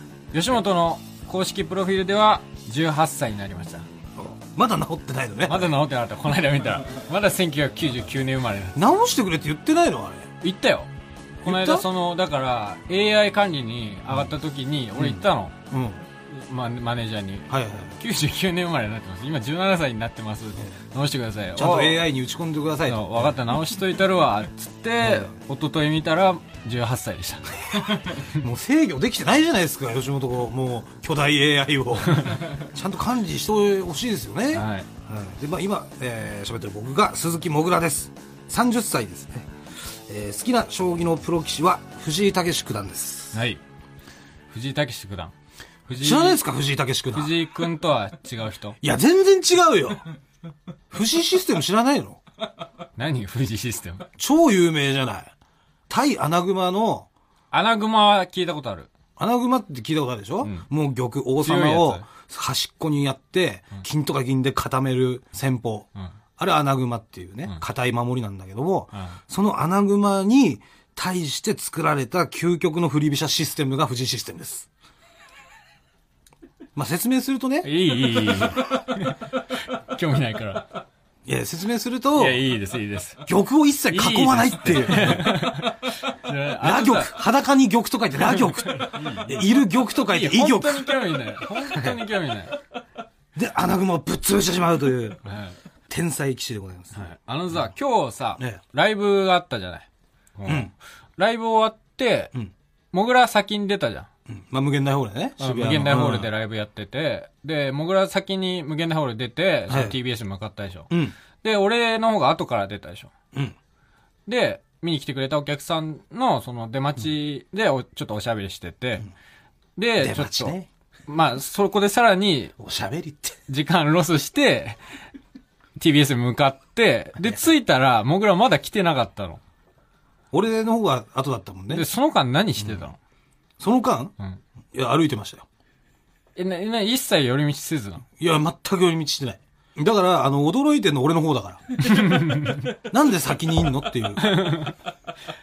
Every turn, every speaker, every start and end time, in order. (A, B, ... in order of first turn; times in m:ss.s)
0:00.3-0:03.9 A
0:04.2-0:05.8 B
0:05.5-0:08.8 A
0:08.8-0:10.3 B
0:10.4-0:15.6 A
0:11.4-0:11.9 B
0:15.0-0:16.0 B
0:16.3-0:22.0 A
0:17.5-0:18.0 B
0:21.6-0:23.4 B
0:22.9-0:28.0 A
0:25.0-0:25.3 B
0:28.2-0:43.4 B
0:32.1-0:32.5 A
0:34.5-0:34.9 A
0:43.3-0:43.6 A
0:44.5-0:45.3 A
0:45.9-0:46.4 A
0:46.0-0:47.4 B
0:47.1-0:48.8 A
0:48.8-0:50.0 B
0:50.9-0:52.2 B
0:53.0-0:54.1 A
0:54.2-0:55.3 B
0:55.9-0:57.1 B
0:57.5-0:58.9 A
0:59.2-1:14.7 B
1:00.4-1:00.7 A
1:01.4-1:02.0 A
1:09.0-1:09.2 A
1:16.8-1:17.7 B
1:17.6-1:20.8 A
1:21.2-1:22.4 B
1:22.2-1:23.2 A
1:23.3-1:25.7 B
1:23.9-1:27.1 A
1:26.6-1:31.0 B
1:28.4-1:32.6 A
1:31.7-1:32.0 B
1:33.4-1:35.2 B
1:35.2-1:35.6 A
1:35.9-1:37.7 B
1:36.9-1:42.3 A
1:40.5-1:40.7 B
1:42.9-1:44.1 A
1:44.3-1:46.3 B
1:45.4-1:50.9 A
1:49.7-1:50.0 B
1:50.9-1:51.2 B
1:51.4-1:53.1 A
1:54.3-1:59.1 A
1:59.8-2:00.6 A
2:00.0-2:00.7 B
2:01.1-2:02.6 A
2:02.6-2:03.4 B
2:03.5-2:04.8 A
2:05.8-2:09.4 A
2:07.2-2:07.5 B
2:10.3-2:11.9 B
2:11.7-2:13.0 A
2:12.6-2:12.9 B
2:13.6-2:14.1 B
2:14.7-2:15.4 B
2:16.4-2:18.0 A
2:18.2-2:24.4 B
2:21.8-2:22.7 A
2:24.2-2:24.8 A